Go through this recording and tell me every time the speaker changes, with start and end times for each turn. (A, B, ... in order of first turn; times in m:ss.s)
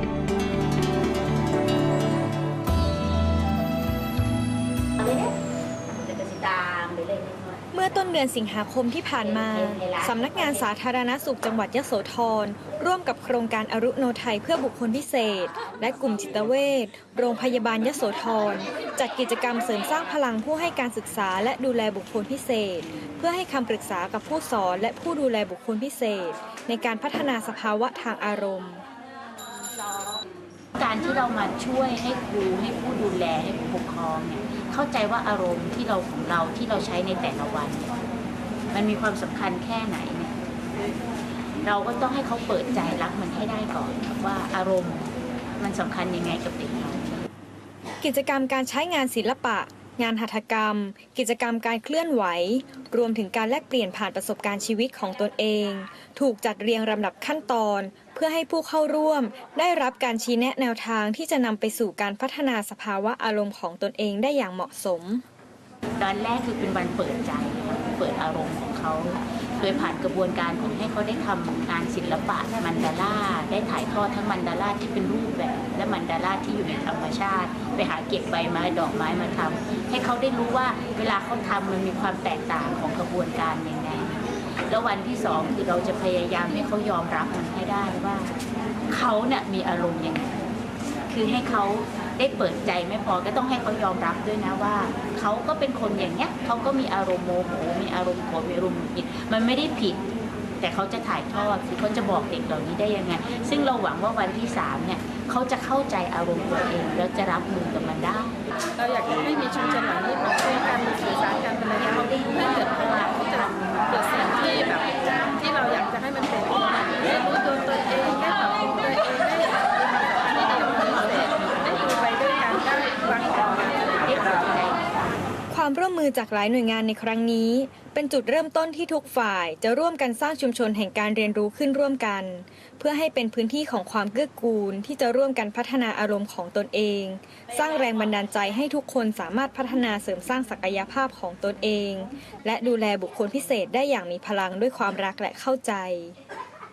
0:05.0-0:05.3 A
0:05.9-0:07.8 A
0:07.7-0:28.8 B
0:09.2-0:10.6 A
0:30.8-0:38.0 A
0:38.7-0:40.4 A
0:41.6-0:47.1 A
0:48.0-1:05.2 B
1:06.0-1:28.4 A
1:28.9-1:30.5 A
1:31.1-1:40.0 A
1:40.6-1:48.4 A
1:48.8-1:51.6 C
1:51.4-1:55.4 A
1:55.4-2:03.4 C
2:03.4-2:05.1 A
2:05.5-2:26.1 B